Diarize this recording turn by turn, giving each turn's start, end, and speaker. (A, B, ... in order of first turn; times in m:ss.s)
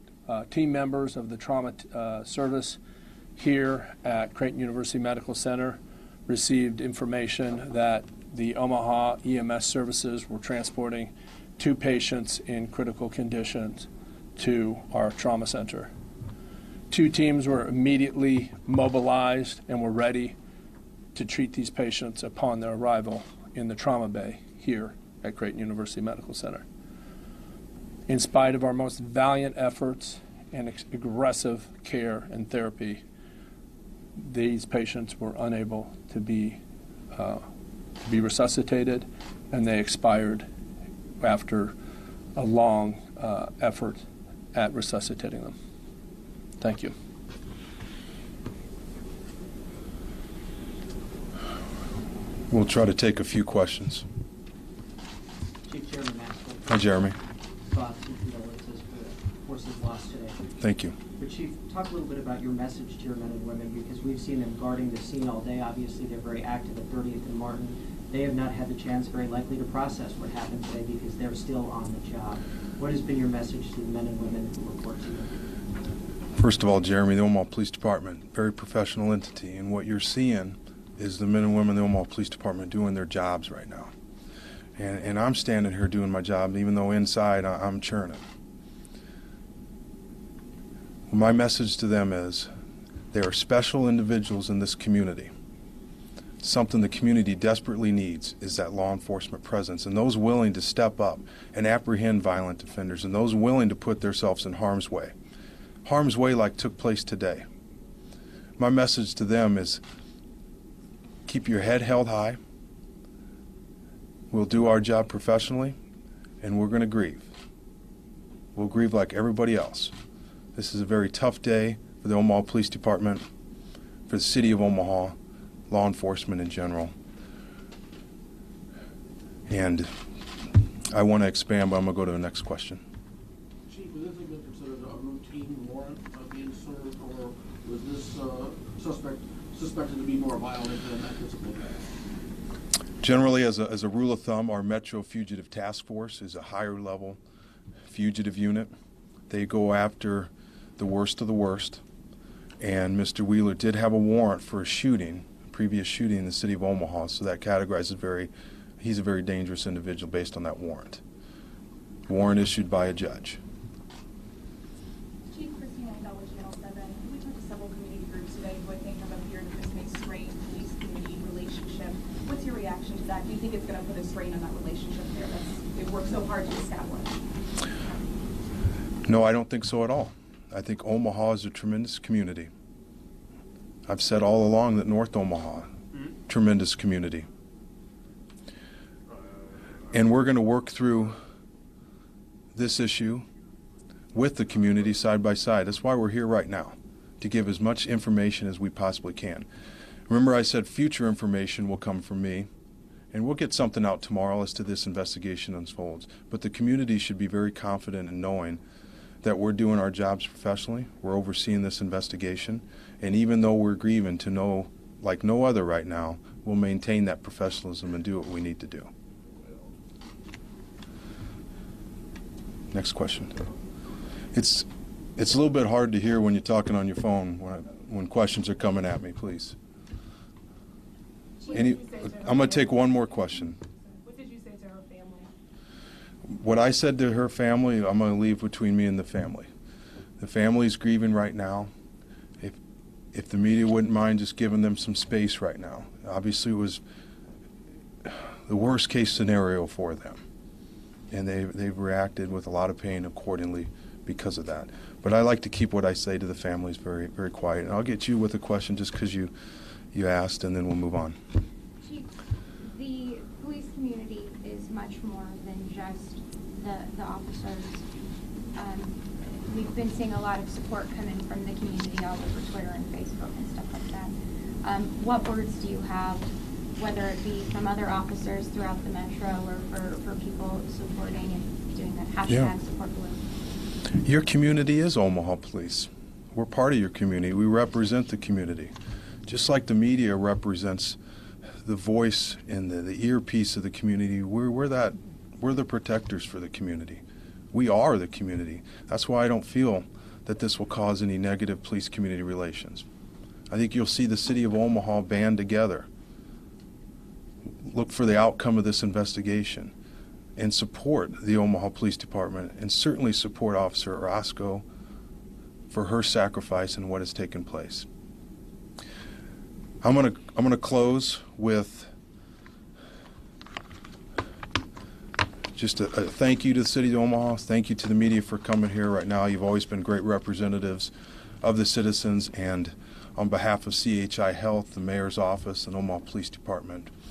0:00.2-0:02.8 A
0:03.4-0:15.9 A
0:16.9-0:20.4 A
0:21.1-0:26.6 A
0:28.1-0:33.0 A
0:34.2-0:36.6 A
0:37.1-0:37.4 A
0:38.0-0:40.5 A
0:41.2-0:41.8 A
0:42.3-0:45.5 A
0:46.6-0:46.9 A
0:52.5-0:54.0 B
0:55.6-0:57.0 C
0:56.7-0:57.2 B
0:57.6-1:00.4 C
1:00.6-1:01.0 B
1:01.2-1:15.5 C
1:16.4-1:23.9 B
1:24.8-1:28.2 B
1:31.1-1:32.5 B
1:33.1-1:35.3 B
1:36.4-1:45.1 B
1:45.8-1:47.4 B
1:48.6-1:49.8 B
1:51.2-1:52.4 B
1:54.3-1:55.8 B
1:56.4-1:57.3 B
1:58.5-1:59.9 B
2:00.5-2:03.3 B
2:04.1-2:05.1 B
2:05.7-2:06.9 B
2:09.5-2:09.9 B
2:10.9-2:12.8 B
2:13.7-2:21.9 D
2:23.0-2:27.2 B
2:27.9-2:28.7 B
2:29.3-2:31.8 B
2:32.6-2:41.0 B
2:42.1-2:43.4 B
2:45.3-2:57.2 E
2:59.0-3:02.5 B
3:03.9-3:05.7 B
3:06.3-3:07.3 B
3:09.9-3:11.2 B
3:12.5-3:13.2 B
3:14.1-3:19.5 B
3:20.1-3:22.5 B
3:23.1-3:28.6 B
3:29.2-3:38.9 B
3:42.7-3:43.3 B
3:44.3-3:49.6 B
3:51.4-3:53.2 E
3:51.5-3:53.6 B
3:53.8-3:55.3 E
3:56.3-3:59.5 B
4:00.2-4:01.7 B
4:03.1-4:06.8 B
4:08.0-4:10.2 B
4:11.1-4:19.3 B
4:19.9-4:21.2 B
4:21.8-4:22.1 F
4:22.6-4:27.8 F
4:28.6-4:34.1 F
4:34.6-4:43.2 F
4:44.0-4:48.7 B
4:49.2-4:51.0 B
4:51.6-5:02.8 B
5:03.5-5:05.9 B
5:07.6-5:09.7 B
5:10.4-5:14.6 B
5:15.7-5:17.9 B
5:19.8-5:21.9 B
5:25.6-5:36.9 B